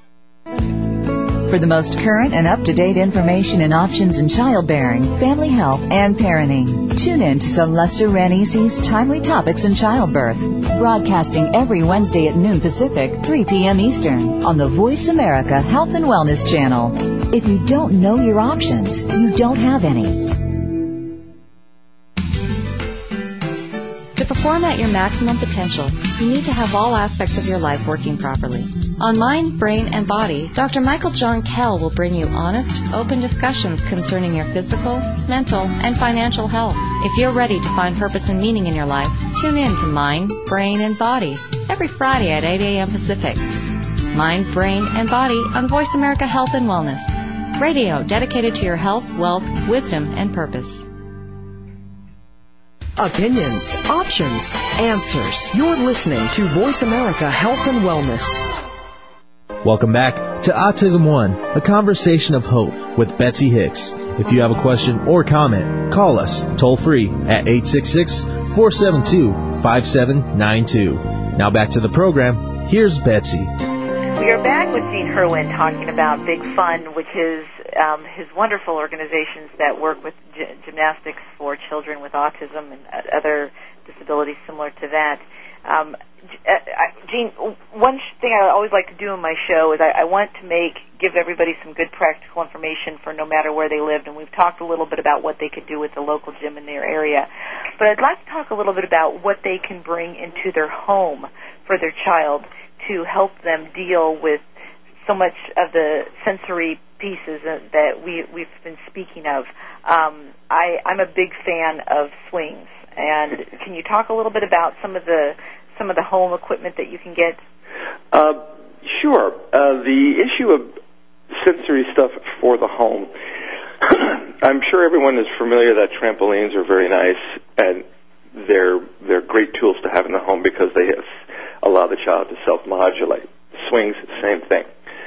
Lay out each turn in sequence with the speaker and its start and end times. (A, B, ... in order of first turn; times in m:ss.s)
0:01.4-0:20.5 A
0:24.2-0:43.5 B
0:44.1-0:50.9 B
0:53.0-0:58.5 C
0:59.6-1:13.6 D
1:14.1-1:37.3 E
1:37.8-1:44.4 E
1:45.0-1:57.4 E
1:58.1-2:00.7 F
2:01.4-2:03.1 F
2:03.8-2:11.1 F
2:11.6-2:14.7 F